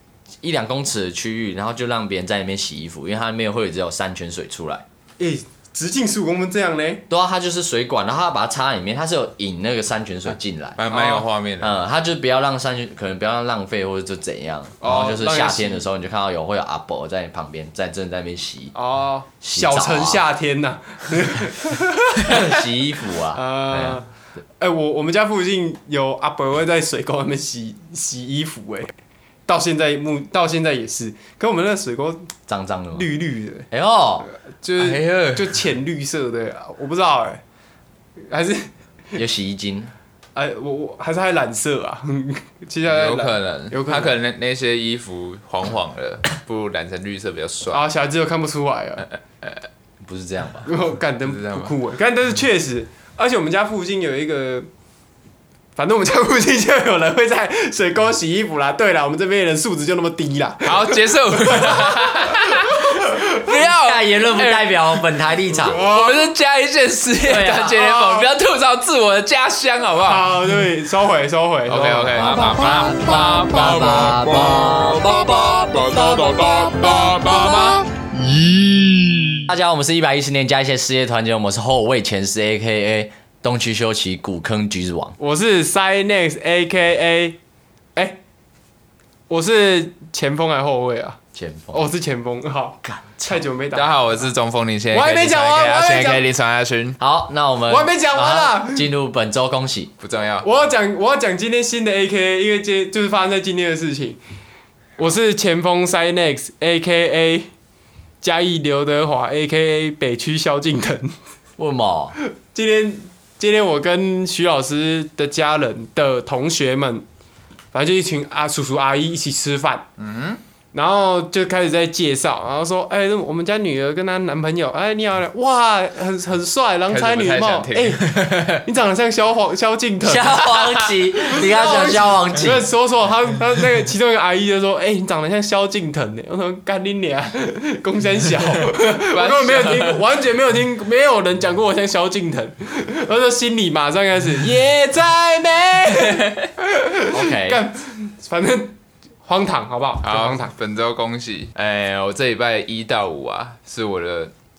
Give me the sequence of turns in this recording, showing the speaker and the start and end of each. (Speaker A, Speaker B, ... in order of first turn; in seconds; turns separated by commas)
Speaker A: 0.4-4.8, Speaker B: 5.2-7.0, Speaker A: 7.1-10.8, Speaker C: 10.8-11.8, Speaker B: 10.9-11.2, Speaker A: 11.6-18.7, Speaker B: 14.8-15.8, Speaker B: 18.7-22.4, Speaker A: 19.4-20.2, Speaker A: 22.2-24.0, Speaker B: 23.3-28.9, Speaker B: 29.5-32.3, Speaker A: 32.5-33.1, Speaker B: 32.9-33.7, Speaker A: 33.7-34.3, Speaker B: 34.5-37.4, Speaker C: 34.8-35.6, Speaker B: 38.2-39.2, Speaker A: 39.1-39.9, Speaker B: 40.4-44.2, Speaker C: 42.8-47.8, Speaker B: 47.7-49.1, Speaker A: 50.0-50.7, Speaker B: 50.6-54.7, Speaker C: 51.2-51.7, Speaker B: 55.8-63.3, Speaker C: 60.6-65.1, Speaker A: 63.4-65.8, Speaker B: 65.6-66.3, Speaker C: 65.6-70.4, Speaker A: 67.2-67.8, Speaker B: 67.7-68.3, Speaker B: 70.0-72.4, Speaker C: 71.7-74.6, Speaker A: 72.2-77.7, Speaker C: 76.4-78.0, Speaker A: 79.4-85.2, Speaker B: 85.2-87.4, Speaker B: 89.3-91.2, Speaker A: 91.3-91.9, Speaker B: 91.7-94.0, Speaker A: 92.8-93.4, Speaker C: 93.7-97.0, Speaker B: 94.9-96.2, Speaker A: 97.0-99.9, Speaker B: 97.7-98.9, Speaker C: 100.0-100.5, Speaker B: 100.4-104.2, Speaker B: 105.0-107.5, Speaker B: 108.2-111.1, Speaker A: 111.6-112.2, Speaker B: 112.2-117.0, Speaker B: 117.7-119.8, Speaker C: 120.0-120.4, Speaker B: 120.7-128.1, Speaker C: 126.9-128.6, Speaker B: 128.6-130.5, Speaker A: 130.0-132.6, Speaker C: 130.4-130.8, Speaker B: 131.3-150.5, Speaker C: 138.7-140.0, Speaker A: 147.1-147.6, Speaker C: 150.0-154.3